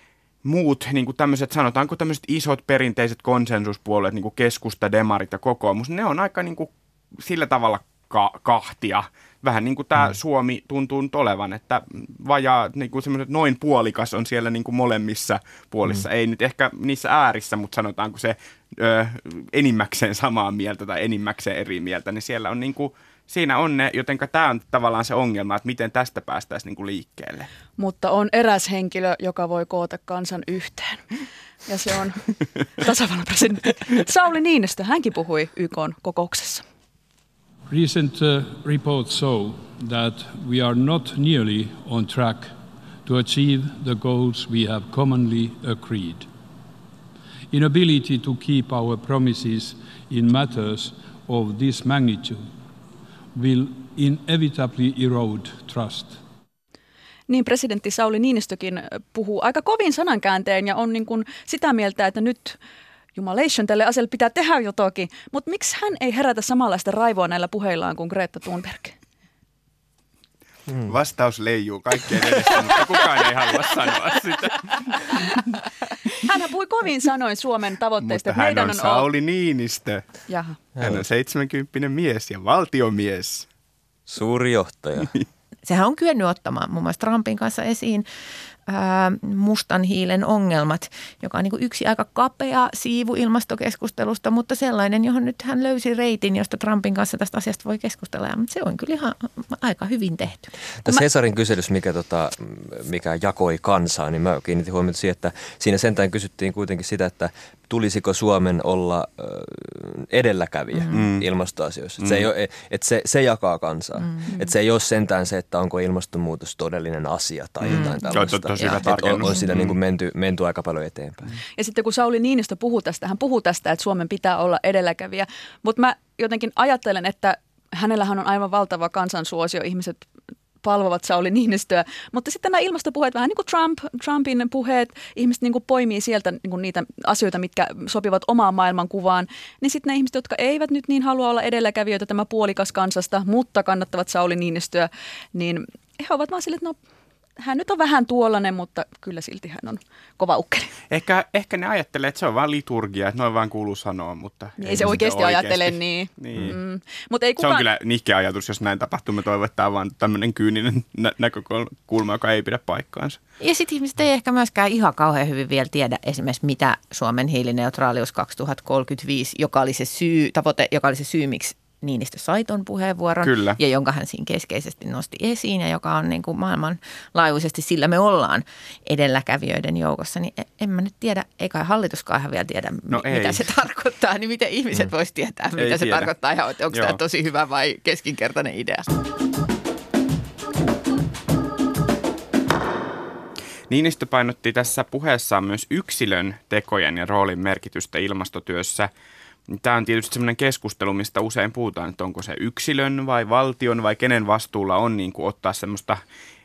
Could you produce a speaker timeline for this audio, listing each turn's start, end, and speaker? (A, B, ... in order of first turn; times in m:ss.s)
0:00.4-0:27.5 A
0:27.8-0:31.1 B
0:31.7-0:36.6 B
0:37.7-0:46.3 C
0:47.5-0:52.5 C
0:53.3-0:56.2 C
0:57.3-1:02.6 B
1:03.2-1:09.0 B
1:10.7-1:11.0 D
1:10.9-1:15.4 A
1:16.2-1:19.1 B
1:18.0-1:20.0 A
1:20.3-1:20.6 B
1:20.8-1:21.0 D
1:20.8-1:23.5 A
1:24.1-1:25.1 D
1:25.7-1:28.1 E
1:28.7-1:40.5 E
1:40.8-2:01.3 D
1:50.7-1:51.0 E
1:50.9-1:51.3 A
1:52.0-1:52.3 A
1:57.7-1:59.8 A
1:57.7-1:58.8 E
2:01.6-2:10.1 B
2:10.6-2:26.8 B
2:27.4-2:30.8 B
2:30.9-2:36.6 A
2:34.6-2:37.6 B
2:37.4-2:43.2 A
2:43.4-3:08.9 E
2:53.2-2:53.6 A
3:02.9-3:03.4 A
3:05.6-3:06.1 A
3:06.7-3:07.0 A
3:13.7-3:18.9 A
3:19.5-3:26.0 A